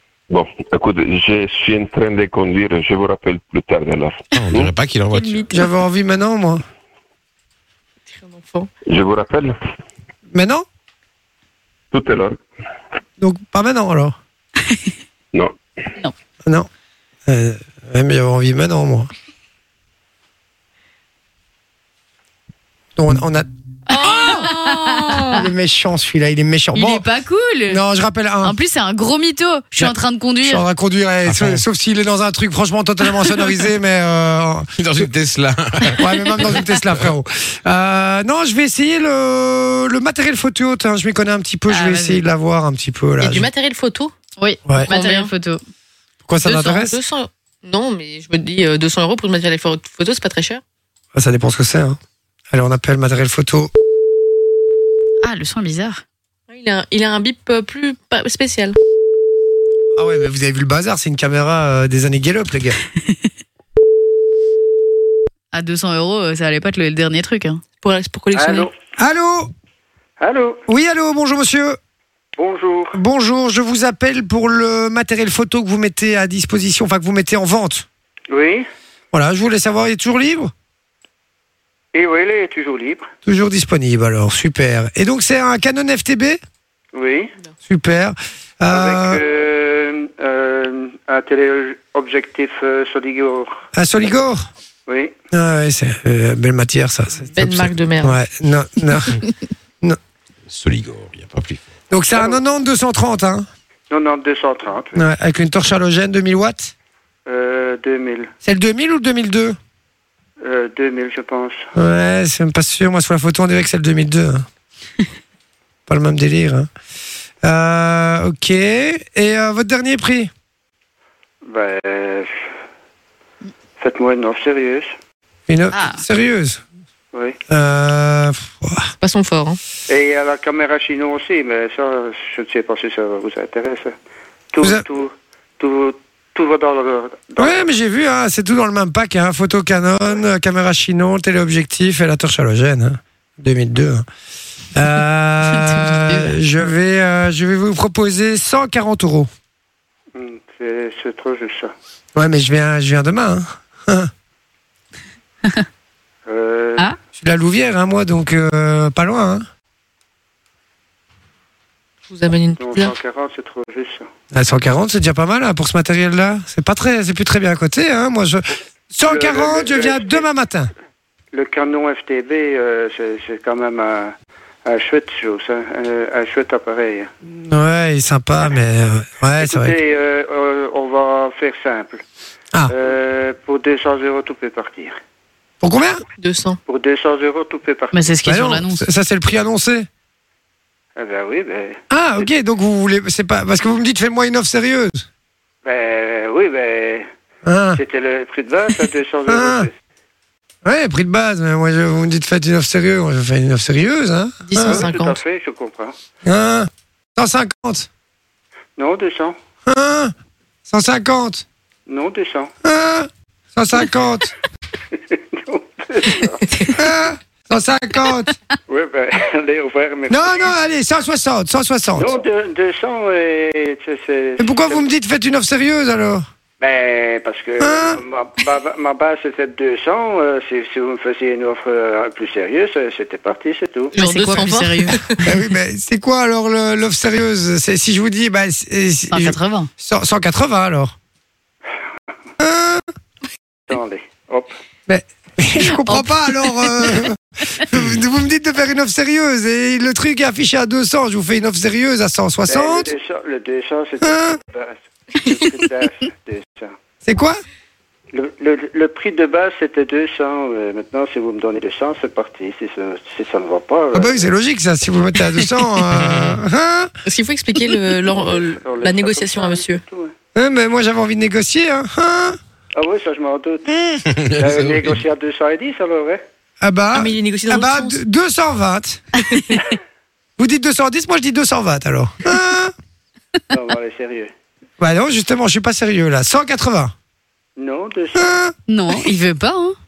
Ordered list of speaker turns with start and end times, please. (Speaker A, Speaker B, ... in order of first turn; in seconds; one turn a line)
Speaker A: 0.3-4.7
Speaker B: 4.3-5.5
Speaker C: 5.1-5.5
Speaker D: 5.5-6.6
Speaker E: 8.1-8.7
Speaker A: 8.9-9.6
Speaker D: 10.3-10.7
Speaker A: 11.9-12.4
Speaker D: 13.2-14.2
Speaker D: 17.3-19.1
Speaker D: 23.0-23.5
Speaker E: 23.9-25.4
Speaker C: 24.0-25.4
Speaker D: 25.4-27.1
Speaker C: 26.8-27.8
Speaker D: 27.7-28.6
Speaker C: 28.4-30.6
Speaker D: 29.8-35.1
Speaker B: 31.3-31.6
Speaker B: 34.8-36.4
Speaker D: 35.9-43.5
Speaker C: 41.7-42.2
Speaker E: 43.2-44.1
Speaker C: 44.4-45.6
Speaker E: 44.8-45.3
Speaker D: 46.2-47.0
Speaker E: 46.4-50.6
Speaker D: 51.1-52.0
Speaker D: 52.5-53.7
Speaker C: 55.2-56.0
Speaker E: 56.5-58.8
Speaker D: 60.0-62.8
Speaker C: 65.5-67.6
Speaker E: 67.8-68.7
Speaker F: 68.3-68.7
Speaker D: 69.0-69.5
Speaker F: 70.2-70.6
Speaker D: 70.7-71.8
Speaker F: 72.4-73.0
Speaker D: 72.9-77.9
Speaker F: 78.3-78.7
Speaker D: 79.1-80.5
Speaker F: 81.9-83.1
Speaker D: 83.2-86.4
Speaker F: 86.9-87.3
Speaker D: 87.7-89.2
Speaker F: 88.7-93.6
Speaker D: 93.7-94.5
Speaker F: 94.9-95.1
Speaker D: 95.3-99.2
Speaker E: 97.3-98.2
Speaker B: 100.5-101.6
Speaker D: 101.9-103.5
Speaker F: 102.1-102.4
Speaker F: 103.9-105.0
Speaker D: 105.0-106.7
Speaker F: 107.3-108.3
Speaker D: 108.4-109.6
Speaker F: 110.4-111.7
Speaker D: 111.8-114.5
Speaker D: 115.9-116.7
Speaker D: 117.4-120.3
Speaker F: 121.5-122.4
Speaker F: 123.8-124.9
Speaker D: 125.5-126.6
Speaker C: 125.7-126.0
Speaker D: 127.5-128.9
Speaker E: 129.0-129.6
Speaker F: 129.9-133.9
Speaker F: 134.5-137.7
Speaker D: 137.4-144.1
Speaker D: 144.7-149.3
Speaker F: 150.1-151.7
Speaker D: 152.2-154.1
Speaker F: 156.3-156.9
Speaker D: 157.2-159.5
Speaker E: 162.1-162.9
Speaker F: 162.6-164.1
Speaker D: 164.3-170.7
Speaker F: 169.0-170.2
Speaker F: 171.3-174.1
Speaker F: 174.7-177.1
Speaker D: 177.2-179.8
Speaker F: 179.4-182.0
Speaker F: 182.7-185.0
Speaker D: 185.6-186.0
Speaker E: 186.2-186.6
Speaker F: 186.7-188.0
Speaker C: 187.9-188.9
Speaker D: 188.2-189.9
Speaker F: 191.0-191.8
Speaker D: 191.9-195.1
Speaker F: 195.7-197.1
Speaker D: 197.4-197.8
Speaker F: 197.8-199.7
Speaker D: 199.3-199.7
Speaker D: 200.6-204.9
Speaker E: 204.4-205.2
Speaker F: 204.6-205.9
Speaker D: 206.2-207.9
Speaker F: 208.8-209.4
Speaker D: 209.7-210.1
Speaker D: 210.7-211.4
Speaker F: 211.9-212.5
Speaker D: 212.6-214.3
Speaker F: 214.9-216.4
Speaker D: 216.7-218.3
Speaker F: 218.7-220.5
Speaker D: 220.1-222.1
Speaker F: 222.0-224.9
Speaker D: 224.4-226.3
Speaker F: 226.6-233.9
Speaker D: 227.6-228.0
Speaker E: 233.9-235.3
Speaker C: 234.0-235.0
Speaker D: 235.2-240.9
Speaker C: 239.1-239.7
Speaker D: 242.4-242.8
Speaker F: 243.7-244.5
Speaker D: 244.9-252.9
Speaker C: 245.6-247.0
Speaker F: 252.5-256.8
Speaker D: 254.0-254.4
Speaker D: 257.1-257.4
Speaker F: 258.1-264.3
Speaker D: 263.9-266.9
Speaker E: 267.1-269.8
Speaker F: 268.1-270.1
Speaker D: 270.4-272.4
Speaker F: 272.8-273.7
Speaker B: 274.2-274.8
Speaker F: 274.3-276.2
Speaker D: 276.6-279.1
Speaker E: 276.9-278.0
Speaker D: 280.4-282.7
Speaker F: 283.5-284.3
Speaker D: 284.8-286.9
Speaker F: 287.6-288.4
Speaker D: 288.2-288.5
Speaker C: 288.7-289.8